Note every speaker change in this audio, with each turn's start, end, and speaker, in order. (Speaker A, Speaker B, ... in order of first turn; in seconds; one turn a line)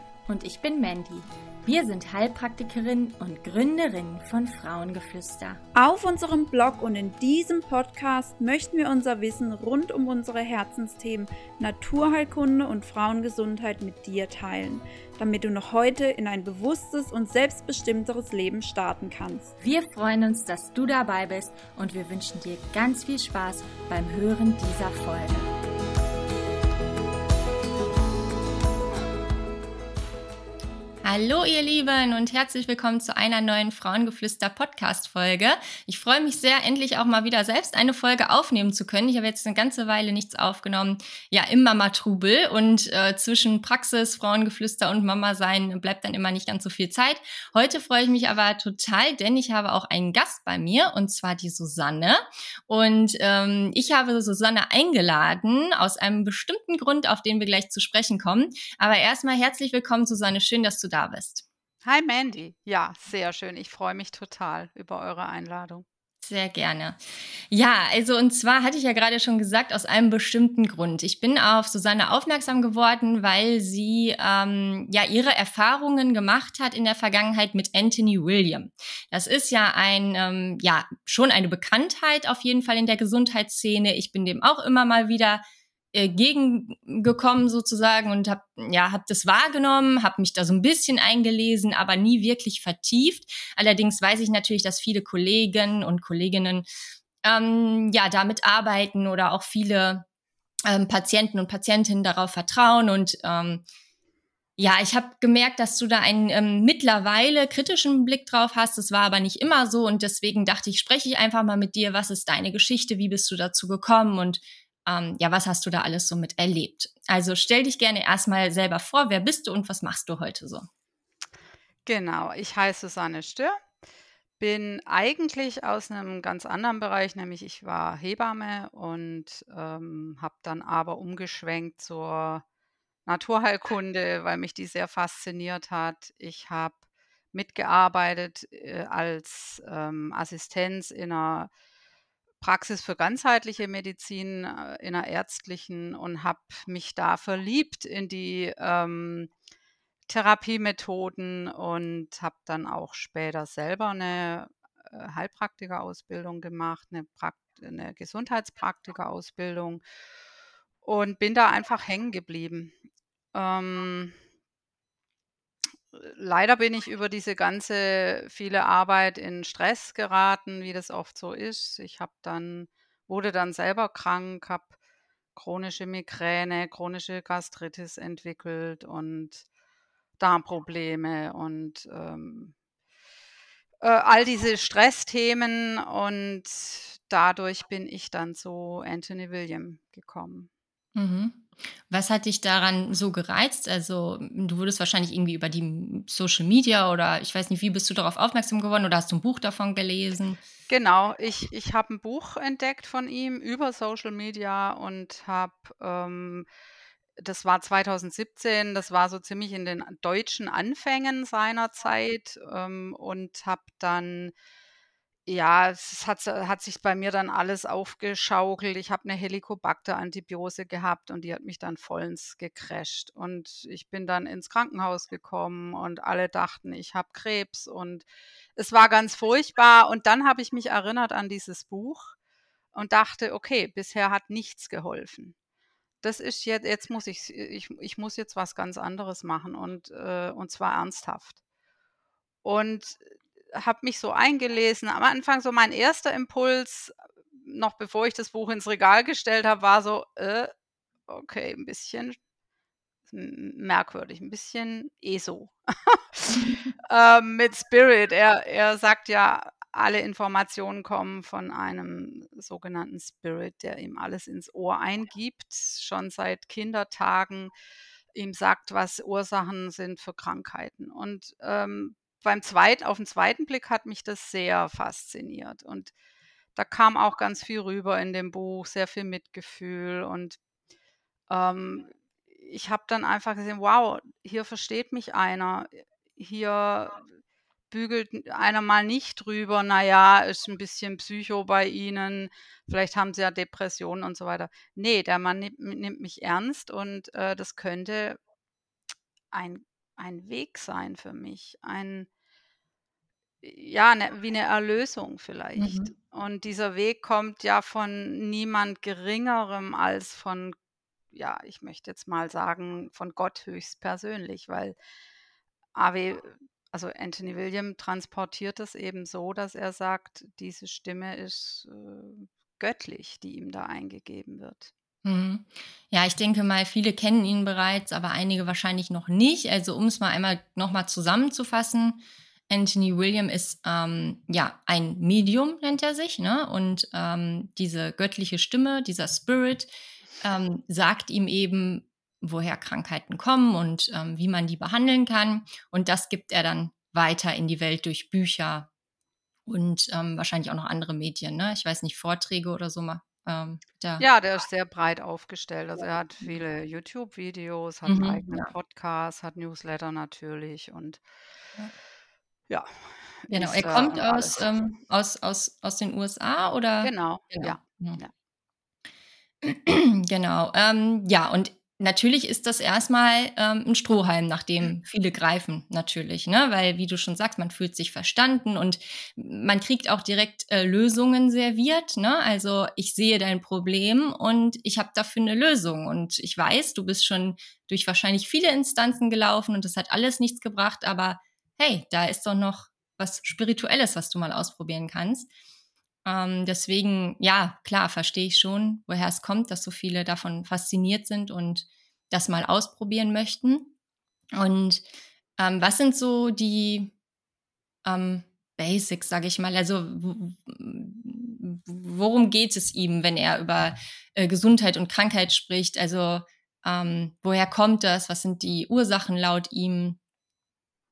Speaker A: 0.3-5.6
Speaker B: 5.8-19.5
Speaker A: 19.6-25.5
Speaker A: 31.0-61.4
Speaker C: 61.9-65.8
Speaker A: 66.2-67.0
Speaker A: 67.5-85.4
Speaker A: 85.9-96.7
Speaker A: 97.2-100.0
Speaker A: 100.7-103.6
Speaker A: 104.6-120.7
Speaker C: 121.9-123.6
Speaker C: 124.4-132.4
Speaker C: 133.1-136.8
Speaker C: 137.3-141.5
Speaker C: 142.4-149.3
Speaker C: 150.1-159.8
Speaker C: 160.8-162.8
Speaker C: 163.3-164.2
Speaker C: 165.9-174.8
Speaker C: 175.3-179.5
Speaker C: 180.2-182.6
Speaker C: 183.8-190.5
Speaker A: 191.0-200.4
Speaker C: 200.7-206.5
Speaker C: 207.2-214.3
Speaker C: 215.3-232.2
Speaker C: 232.7-235.3
Speaker C: 236.0-241.4
Speaker C: 242.4-250.5
Speaker C: 251.1-252.2
Speaker C: 253.1-267.5
Speaker C: 268.1-275.9
Speaker C: 276.6-280.4
Speaker C: 281.3-287.0
Speaker C: 287.7-298.2
Speaker C: 299.3-302.1
Speaker C: 303.4-310.6
Speaker A: 305.6-305.9
Speaker C: 311.1-314.8
Speaker C: 315.8-324.7
Speaker A: 325.1-348.7
Speaker A: 349.5-354.0
Speaker C: 354.0-361.0
Speaker A: 357.9-358.5
Speaker C: 363.2-364.5
Speaker A: 363.3-368.0
Speaker C: 366.8-368.1
Speaker A: 369.4-395.3
Speaker A: 396.1-403.7
Speaker A: 404.3-404.9
Speaker A: 405.4-406.9
Speaker A: 407.9-420.0